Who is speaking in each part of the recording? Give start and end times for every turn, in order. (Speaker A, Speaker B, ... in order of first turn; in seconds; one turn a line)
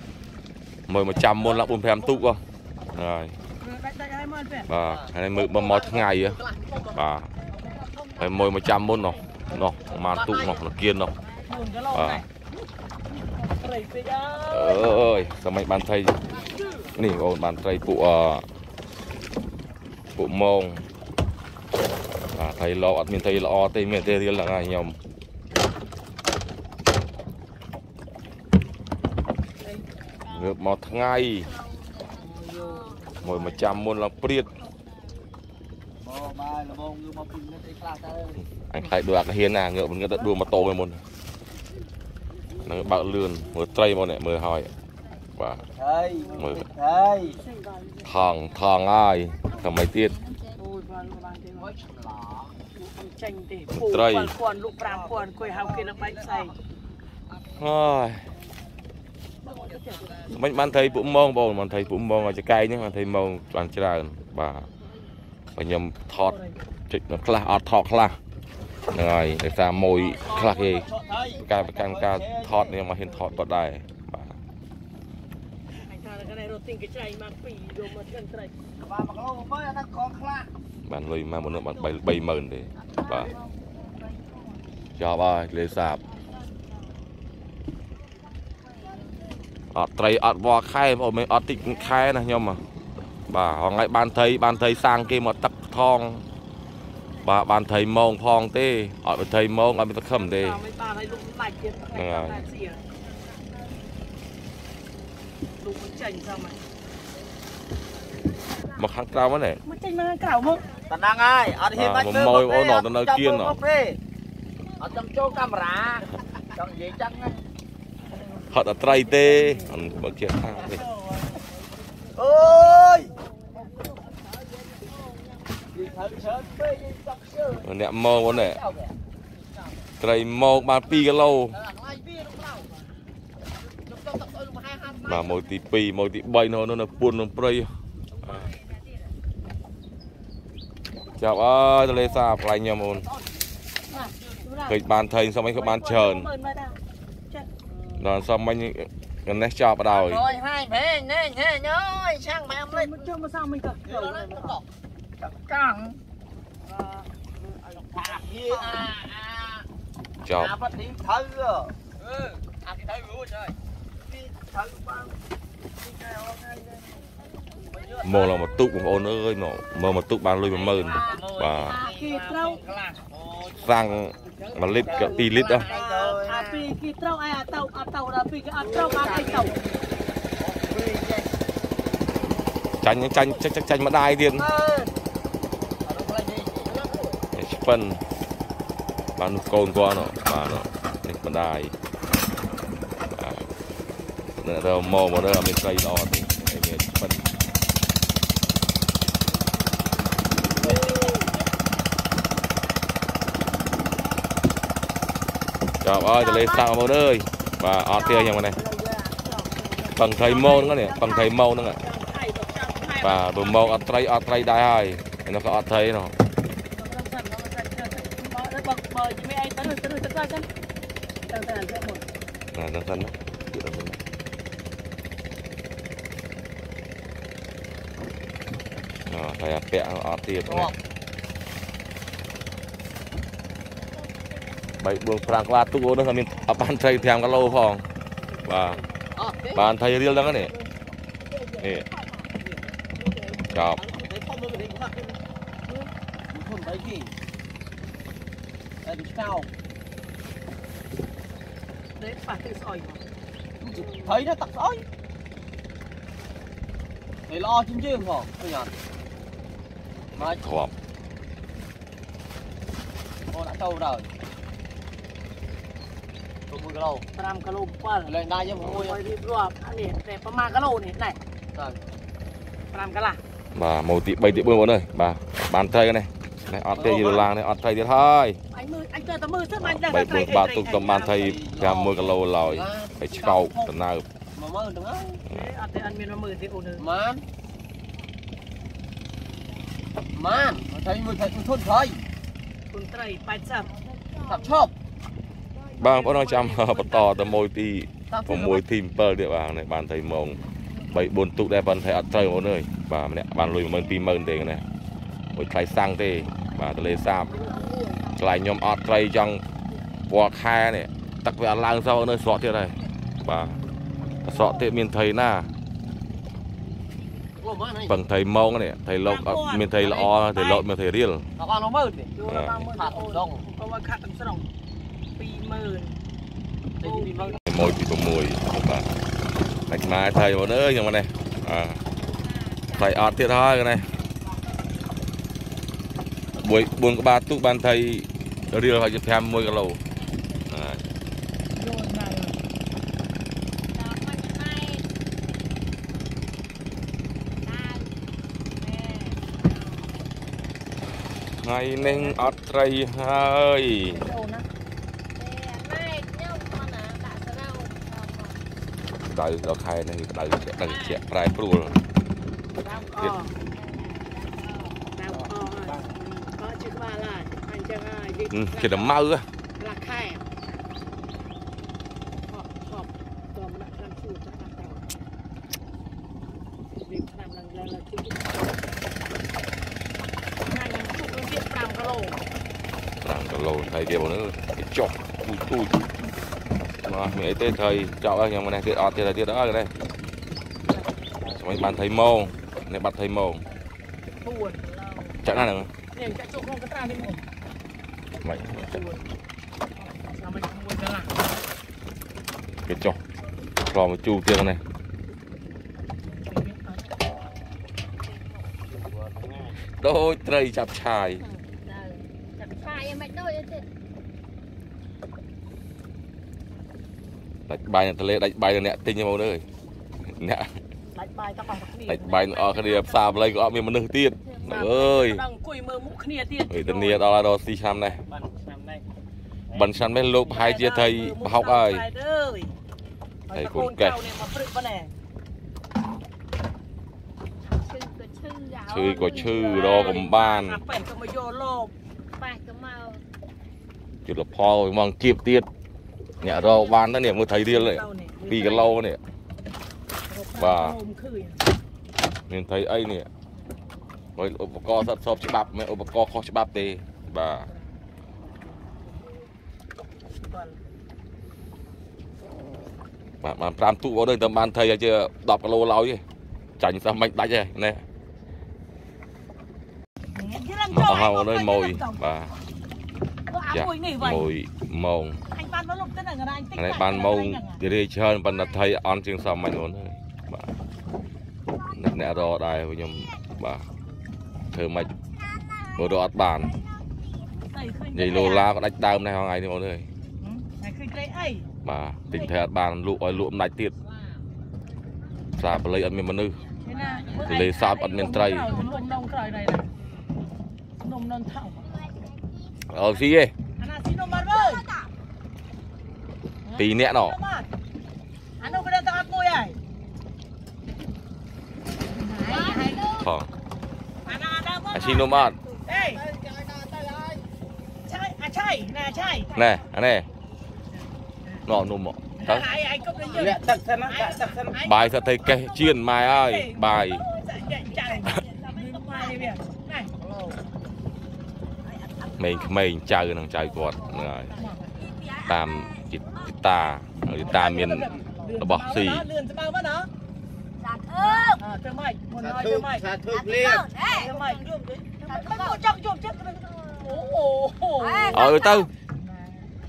Speaker A: 0.9-2.4
Speaker B: 1.1-1.8
Speaker A: 2.9-3.3
Speaker C: 3.6-4.7
Speaker A: 4.7-6.4
Speaker B: 4.8-7.0
Speaker A: 6.9-7.3
Speaker A: 8.2-11.1
Speaker B: 10.1-10.6
Speaker C: 11.4-12.2
Speaker A: 11.9-12.2
Speaker C: 13.4-14.9
Speaker A: 14.5-16.1
Speaker B: 16.4-16.9
Speaker A: 16.9-18.4
Speaker A: 20.1-20.8
Speaker A: 22.3-25.0
Speaker A: 30.2-31.5
Speaker D: 31.4-33.0
Speaker B: 32.2-33.0
Speaker C: 33.0-33.3
Speaker A: 33.2-34.5
Speaker B: 36.0-38.4
Speaker A: 38.5-41.0
Speaker A: 42.6-44.7
Speaker A: 45.4-45.6
Speaker B: 45.6-47.4
Speaker A: 46.4-46.6
Speaker C: 47.3-48.1
Speaker A: 48.0-50.2
Speaker D: 49.6-50.3
Speaker C: 50.5-51.7
Speaker B: 51.5-52.5
Speaker C: 52.7-56.5
Speaker A: 53.7-54.3
Speaker B: 54.8-56.5
Speaker A: 57.5-58.2
Speaker C: 59.4-60.3
Speaker B: 59.5-60.5
Speaker A: 60.3-64.7
Speaker A: 65.5-66.3
Speaker C: 66.1-66.6
Speaker A: 66.9-68.2
Speaker A: 68.9-74.4
Speaker D: 70.0-71.3
Speaker B: 70.1-72.8
Speaker C: 75.7-78.5
Speaker B: 78.8-80.5
Speaker A: 80.8-83.3
Speaker D: 82.9-84.5
Speaker A: 85.0-86.0
Speaker A: 89.7-92.6
Speaker A: 93.3-96.2
Speaker A: 97.2-100.6
Speaker C: 100.1-102.8
Speaker A: 101.9-102.4
Speaker C: 105.6-106.6
Speaker A: 108.6-109.6
Speaker C: 109.6-110.7
Speaker B: 110.9-114.0
Speaker A: 111.7-113.6
Speaker B: 114.8-117.4
Speaker A: 118.5-120.8
Speaker C: 120.7-121.2
Speaker B: 122.1-123.1
Speaker D: 124.0-125.8
Speaker B: 125.7-128.9
Speaker A: 127.6-128.6
Speaker A: 130.0-131.6
Speaker B: 130.9-132.8
Speaker B: 133.8-135.3
Speaker A: 135.0-137.7
Speaker A: 141.2-143.1
Speaker B: 143.0-143.3
Speaker C: 143.9-144.8
Speaker A: 144.7-146.3
Speaker C: 145.5-146.8
Speaker A: 148.0-150.3
Speaker B: 149.9-152.8
Speaker D: 151.8-153.1
Speaker C: 152.7-154.6
Speaker B: 153.8-154.6
Speaker B: 155.2-156.0
Speaker B: 157.6-159.6
Speaker D: 158.3-158.6
Speaker A: 160.2-160.6
Speaker B: 160.3-163.5
Speaker B: 164.2-165.1
Speaker B: 165.8-167.0
Speaker B: 167.8-168.3
Speaker A: 168.0-171.8
Speaker B: 170.6-176.7
Speaker D: 170.7-172.0
Speaker C: 171.7-172.6
Speaker A: 173.6-175.7
Speaker C: 175.9-179.6
Speaker B: 178.6-179.7
Speaker B: 180.4-181.3
Speaker A: 182.8-184.5
Speaker B: 184.3-184.9
Speaker B: 185.8-187.1
Speaker A: 187.3-188.0
Speaker A: 189.2-191.7
Speaker A: 193.1-193.4
Speaker A: 194.4-197.3
Speaker D: 200.6-201.2
Speaker B: 200.8-201.2
Speaker A: 205.8-208.6
Speaker D: 206.1-206.8
Speaker D: 207.9-211.3
Speaker A: 209.9-211.8
Speaker C: 210.2-210.7
Speaker C: 211.8-213.9
Speaker A: 213.0-216.1
Speaker C: 216.7-220.5
Speaker C: 221.2-222.0
Speaker A: 222.5-224.0
Speaker A: 229.1-230.7
Speaker B: 230.4-230.8
Speaker A: 234.8-237.8
Speaker A: 238.4-238.8
Speaker B: 239.1-239.7
Speaker A: 239.5-240.5
Speaker A: 241.6-241.9
Speaker B: 243.1-245.1
Speaker A: 243.5-243.8
Speaker B: 246.3-247.1
Speaker B: 248.8-249.5
Speaker C: 252.0-253.0
Speaker B: 253.6-254.8
Speaker D: 253.7-254.1
Speaker B: 257.3-258.8
Speaker B: 260.1-260.5
Speaker A: 260.2-260.7
Speaker B: 263.3-264.1
Speaker B: 266.5-267.0
Speaker C: 267.1-271.2
Speaker B: 268.1-269.0
Speaker B: 271.5-271.8
Speaker C: 272.7-273.2
Speaker A: 273.5-278.4
Speaker B: 276.7-277.3
Speaker C: 278.5-281.2
Speaker A: 279.6-284.1
Speaker B: 280.9-283.7
Speaker B: 284.3-285.2
Speaker C: 285.3-286.9
Speaker B: 286.8-287.2
Speaker B: 290.1-292.1
Speaker C: 292.7-293.7
Speaker D: 293.8-294.7
Speaker B: 294.2-294.7
Speaker A: 295.8-300.4
Speaker C: 295.9-297.4
Speaker B: 298.1-298.6
Speaker A: 300.9-304.6
Speaker A: 305.3-307.3
Speaker D: 307.3-308.1
Speaker A: 308.1-309.4
Speaker A: 310.1-313.6
Speaker A: 314.2-315.5
Speaker B: 317.4-318.0
Speaker A: 317.9-321.2
Speaker C: 319.0-320.6
Speaker B: 321.4-322.1
Speaker C: 322.1-324.5
Speaker A: 322.3-322.6
Speaker B: 322.7-323.4
Speaker C: 325.1-325.9
Speaker B: 326.8-327.4
Speaker C: 326.8-327.4
Speaker A: 327.5-328.9
Speaker A: 329.7-331.8
Speaker D: 332.0-333.1
Speaker A: 332.7-333.9
Speaker A: 336.4-339.8
Speaker A: 340.5-340.8
Speaker C: 341.5-342.4
Speaker D: 343.7-344.9
Speaker D: 347.4-347.9
Speaker D: 348.6-349.4
Speaker A: 351.4-354.0
Speaker C: 351.8-352.1
Speaker C: 353.9-354.4
Speaker D: 355.1-358.4
Speaker A: 359.1-361.8
Speaker D: 360.6-361.0
Speaker C: 362.6-363.3
Speaker D: 363.5-364.8
Speaker C: 364.9-369.0
Speaker B: 365.2-365.9
Speaker A: 368.3-369.3
Speaker C: 369.6-370.2
Speaker C: 372.3-374.9
Speaker C: 376.8-378.3
Speaker C: 380.4-382.2
Speaker A: 383.0-385.8
Speaker A: 386.8-389.7
Speaker A: 391.2-393.4
Speaker C: 394.2-394.7
Speaker A: 395.2-395.7
Speaker C: 395.9-397.2
Speaker A: 398.2-398.8
Speaker C: 398.4-399.0
Speaker C: 399.8-401.2
Speaker A: 402.6-403.0
Speaker A: 403.6-404.6
Speaker C: 406.0-406.9
Speaker A: 409.7-411.2
Speaker D: 411.2-413.7
Speaker A: 417.5-419.4
Speaker A: 420.2-420.5
Speaker C: 420.9-423.2
Speaker A: 421.9-425.2
Speaker C: 424.4-427.1
Speaker A: 426.5-428.0
Speaker B: 428.1-428.8
Speaker A: 429.5-431.8
Speaker C: 430.2-432.5
Speaker C: 433.3-434.9
Speaker A: 433.3-434.0
Speaker D: 437.4-440.0
Speaker A: 438.7-440.6
Speaker C: 439.2-441.7
Speaker D: 442.1-443.0
Speaker A: 444.0-445.5
Speaker A: 446.2-449.0
Speaker C: 446.2-446.7
Speaker C: 447.3-448.7
Speaker C: 450.1-451.5
Speaker A: 450.3-450.8
Speaker A: 452.3-453.1
Speaker A: 454.2-457.5
Speaker C: 458.6-459.1
Speaker C: 460.2-460.6
Speaker A: 463.2-466.0
Speaker A: 466.6-467.8
Speaker C: 470.1-472.0
Speaker A: 470.7-472.4
Speaker C: 473.3-474.2
Speaker A: 473.5-475.2
Speaker C: 475.3-477.6
Speaker A: 476.6-480.5
Speaker A: 481.7-483.7
Speaker A: 484.5-484.9
Speaker A: 485.8-486.6
Speaker C: 487.4-488.5
Speaker A: 487.9-489.9
Speaker C: 490.2-491.5
Speaker A: 491.6-493.7
Speaker A: 495.4-496.4
Speaker C: 496.6-499.7
Speaker A: 497.1-498.5
Speaker D: 498.5-498.8
Speaker C: 500.8-501.8
Speaker D: 501.6-502.8
Speaker A: 502.7-503.3
Speaker C: 503.6-504.6
Speaker D: 504.3-504.9
Speaker C: 506.4-507.5
Speaker A: 506.6-507.1
Speaker C: 508.4-509.6
Speaker C: 511.9-512.9
Speaker D: 512.2-513.1
Speaker A: 513.0-513.3
Speaker C: 514.0-516.0
Speaker A: 514.7-515.4
Speaker B: 515.9-517.2
Speaker C: 517.9-519.3
Speaker D: 519.0-519.7
Speaker A: 519.3-520.1
Speaker A: 521.5-522.5
Speaker C: 522.2-525.3
Speaker D: 522.7-523.4
Speaker B: 523.3-524.5
Speaker A: 524.6-527.0
Speaker C: 525.8-529.9
Speaker D: 527.6-529.4
Speaker D: 531.6-532.5
Speaker A: 532.2-534.3
Speaker D: 533.4-536.4
Speaker C: 534.3-534.7
Speaker A: 535.2-539.0
Speaker C: 537.2-539.9
Speaker D: 540.6-541.4
Speaker C: 541.0-542.9
Speaker D: 543.0-544.2
Speaker B: 543.1-543.6
Speaker C: 543.8-544.5
Speaker D: 544.8-545.6
Speaker C: 545.0-549.5
Speaker D: 546.3-547.0
Speaker D: 547.7-548.7
Speaker A: 548.1-548.7